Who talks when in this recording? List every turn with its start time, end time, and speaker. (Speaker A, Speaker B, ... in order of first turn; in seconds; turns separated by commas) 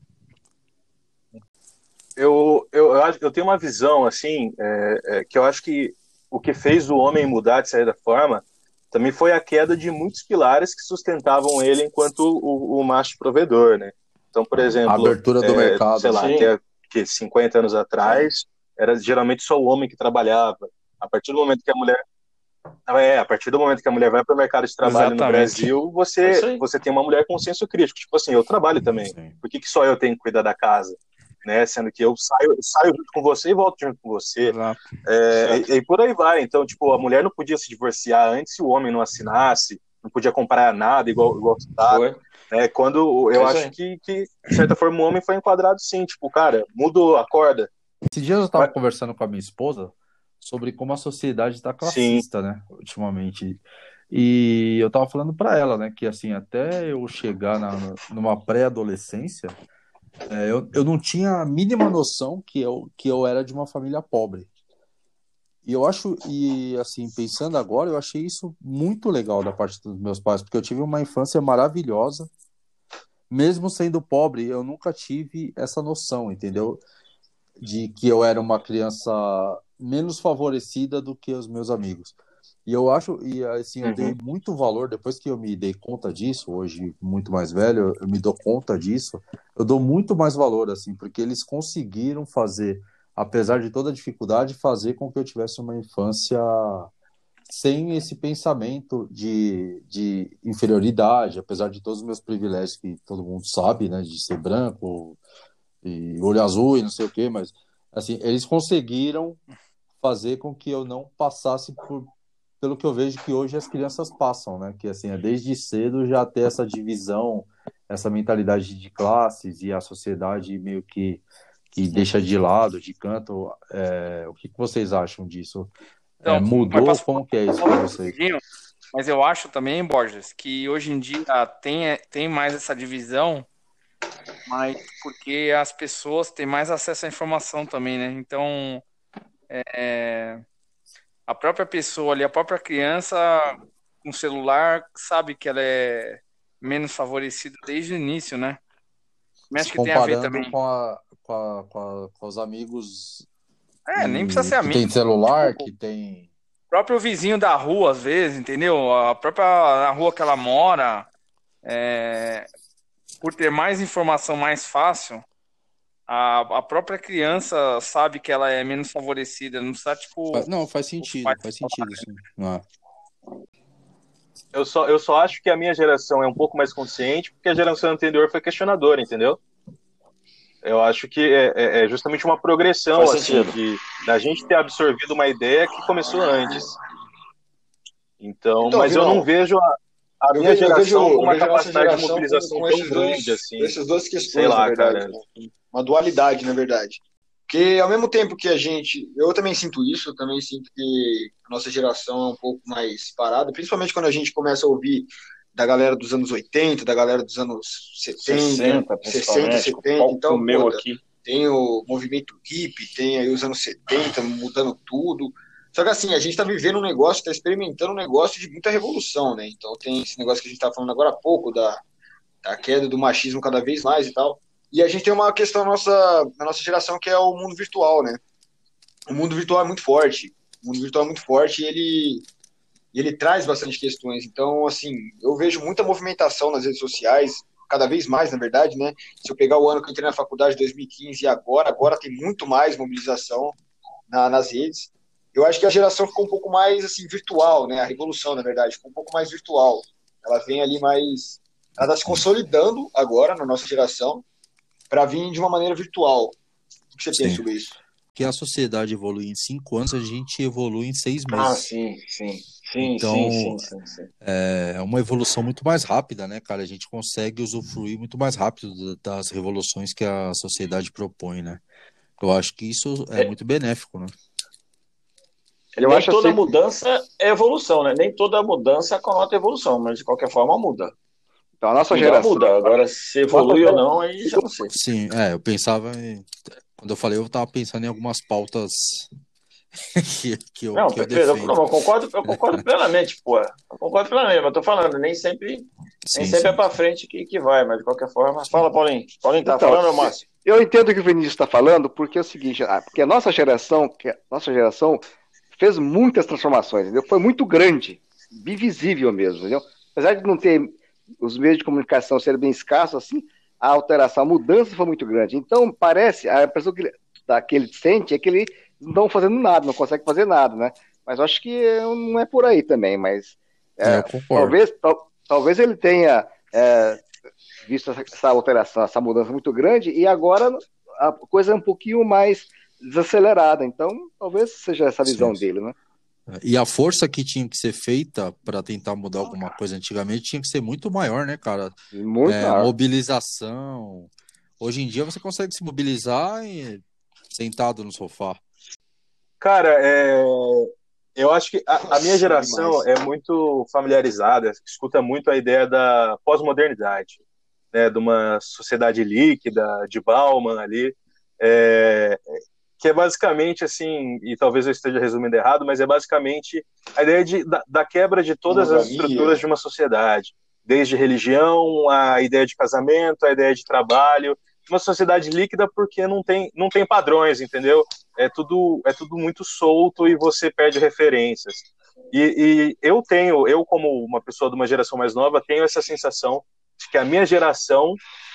Speaker A: 2.2-22.0, Speaker B: 14.9-16.3, Speaker C: 16.1-16.5, Speaker A: 22.9-47.7, Speaker D: 24.8-25.7, Speaker C: 26.2-26.6, Speaker B: 29.0-29.4, Speaker B: 34.4-34.8, Speaker C: 35.4-35.6, Speaker C: 41.9-42.2, Speaker C: 43.3-43.7, Speaker B: 48.1-59.5, Speaker A: 51.8-52.2, Speaker B: 60.3-64.5, Speaker B: 65.6-72.3, Speaker B: 73.3-76.8, Speaker B: 77.6-82.1, Speaker B: 82.7-96.9, Speaker A: 83.8-84.1, Speaker B: 97.5-105.2, Speaker B: 105.8-109.4, Speaker B: 110.0-112.1, Speaker B: 112.6-125.7, Speaker B: 126.2-128.2, Speaker D: 126.2-128.4, Speaker D: 128.9-133.4, Speaker D: 134.5-138.8, Speaker D: 139.5-140.4, Speaker D: 141.3-148.6, Speaker D: 149.5-150.5, Speaker B: 149.6-153.2, Speaker D: 153.8-155.7, Speaker B: 153.9-156.3, Speaker D: 156.7-161.1, Speaker D: 161.6-162.5, Speaker D: 163.2-165.2, Speaker D: 166.1-170.5, Speaker B: 170.3-172.6, Speaker D: 171.0-172.0, Speaker A: 174.5-179.4, Speaker A: 180.6-186.7, Speaker C: 182.9-183.6, Speaker A: 188.2-193.7, Speaker E: 188.6-189.3, Speaker E: 190.3-221.8, Speaker A: 194.3-195.1, Speaker C: 208.2-211.0, Speaker E: 222.4-228.2, Speaker E: 229.1-232.2, Speaker E: 232.9-243.6, Speaker E: 244.1-254.2, Speaker E: 254.9-256.4, Speaker E: 256.9-257.8, Speaker B: 257.1-257.4, Speaker B: 258.1-261.6, Speaker C: 261.3-264.1, Speaker B: 262.8-263.6, Speaker B: 264.2-271.6, Speaker B: 272.2-274.1, Speaker C: 275.8-280.9, Speaker F: 275.8-276.4, Speaker F: 281.6-282.6, Speaker C: 281.9-284.7, Speaker F: 283.3-283.8, Speaker B: 284.7-289.1, Speaker B: 289.9-291.6, Speaker C: 290.7-300.2, Speaker B: 292.2-292.6, Speaker B: 296.1-296.6, Speaker F: 299.4-305.0, Speaker F: 305.6-327.0, Speaker B: 323.8-324.6, Speaker F: 327.6-335.7, Speaker B: 335.0-335.4, Speaker B: 336.3-348.4, Speaker F: 341.9-342.7, Speaker A: 349.4-357.2, Speaker E: 351.8-352.8, Speaker A: 357.7-362.2, Speaker A: 362.8-388.0, Speaker E: 368.5-369.4